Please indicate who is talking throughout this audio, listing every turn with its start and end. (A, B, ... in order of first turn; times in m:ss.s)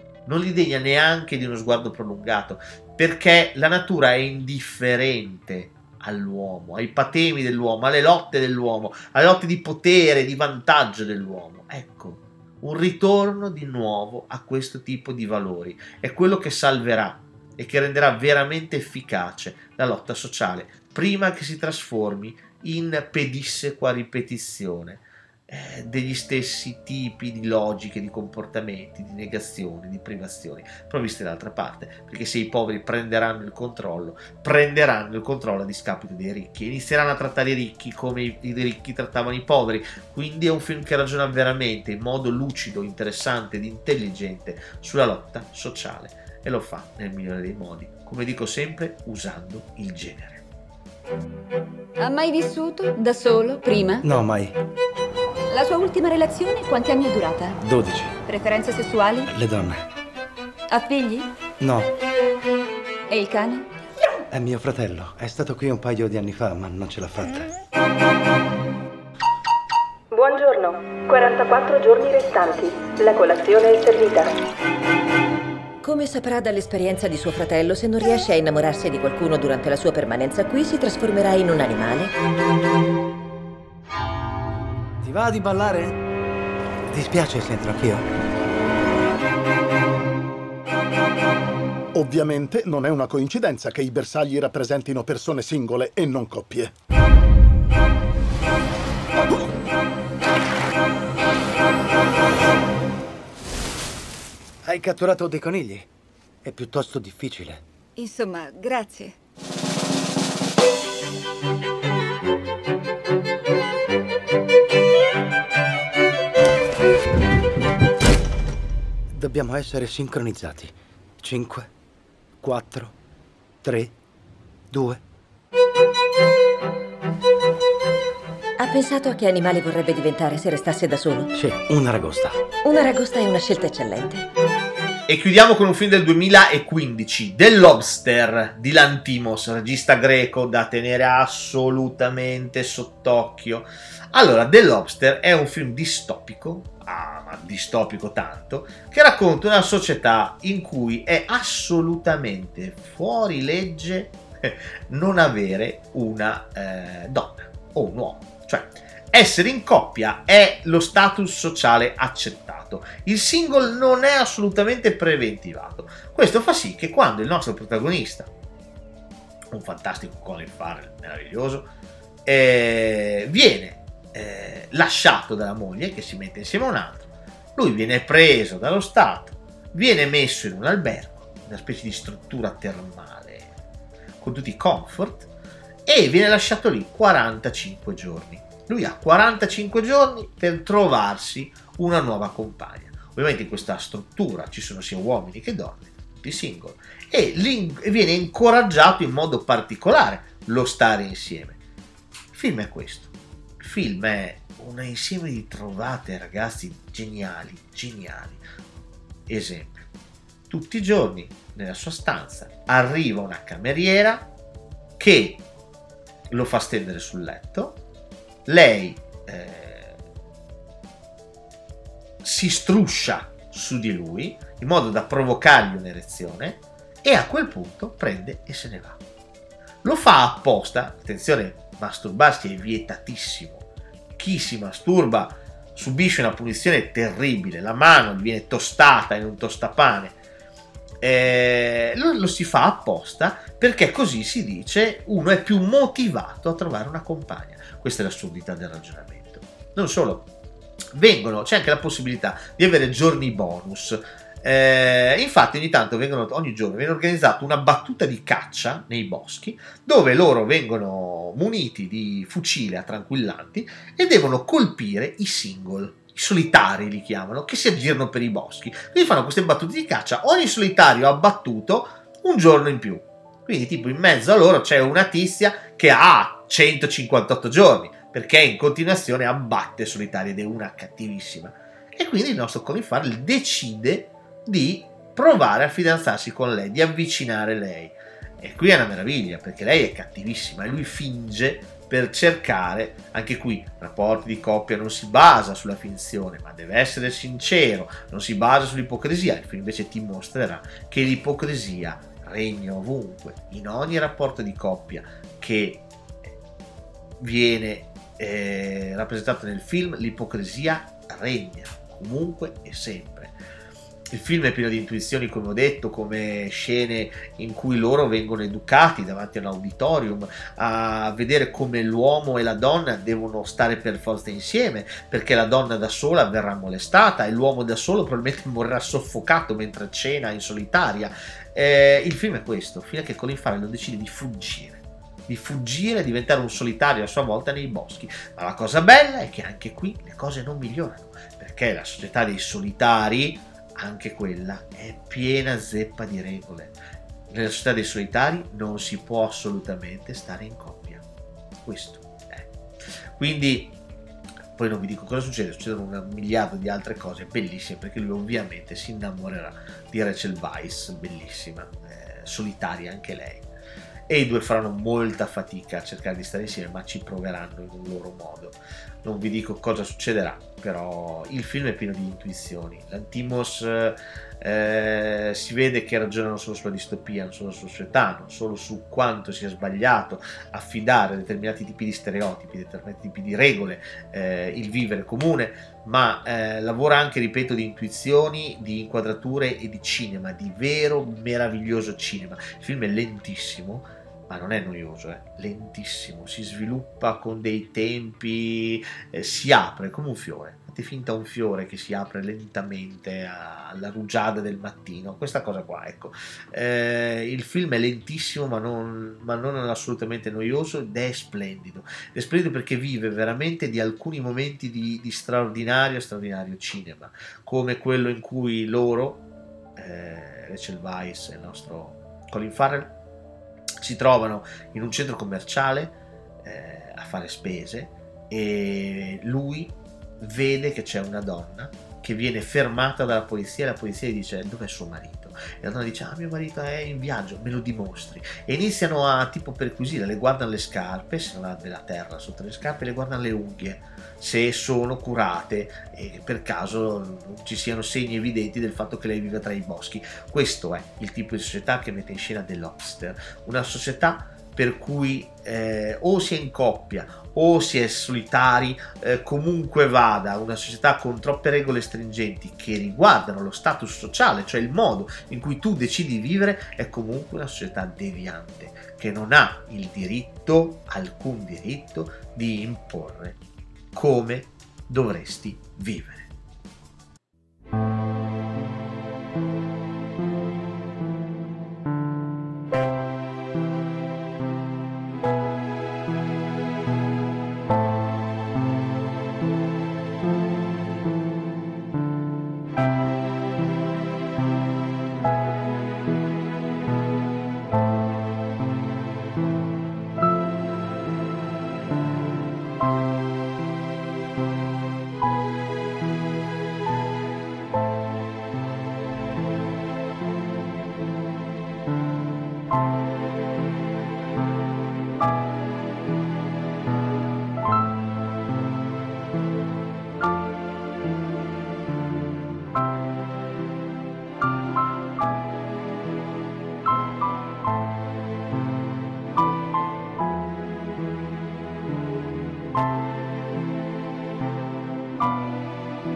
0:00.2-0:50.4 A
0:52.0-0:54.0 B
0:54.0-0:54.5 C
0:55.5-0:57.6 B
0:57.6-0:58.1 C
0:58.2-0:59.3 B
0:59.2-0:59.8 C
1:00.7-1:01.3 B
1:01.6-1:01.9 C
1:03.1-1:03.7 B
1:04.3-1:07.5 C
1:10.1-1:14.3 D
1:15.8-1:22.1 E
1:25.0-1:26.0 C
1:26.9-1:28.0 C
1:31.9-1:36.7 F
1:44.6-1:45.9 C
1:46.4-1:47.6 C
1:48.0-1:49.1 B
1:59.1-2:01.7 C
2:02.4-2:02.9 C
2:03.6-2:03.9 C
2:04.7-2:05.0 C
2:08.6-2:11.3 E
2:11.3-2:12.4 C
2:12.6-2:14.2 E
2:15.1-2:48.3 A
2:49.5-2:51.7 A
2:52.2-3:03.5 A
3:04.2-3:05.3 A
3:05.8-3:21.6 A
3:22.3-3:28.4 A
3:29.3-3:29.9 A
3:30.5-3:34.3 A
3:35.0-3:35.4 A
3:36.3-3:37.8 A
3:38.5-3:40.0 A
3:42.2-3:49.0 A
3:49.8-3:53.6 A
3:54.2-4:00.2 A
4:01.0-4:10.3 A
4:10.9-5:06.3 A
5:07.2-5:13.3 A
5:14.1-5:46.7 A
5:47.3-5:51.0 A
5:51.6-5:53.7 A
5:54.6-6:03.5 A
6:04.1-6:59.2 A
6:59.8-7:02.9 A
7:03.8-7:53.4 A
7:53.9-7:56.3 A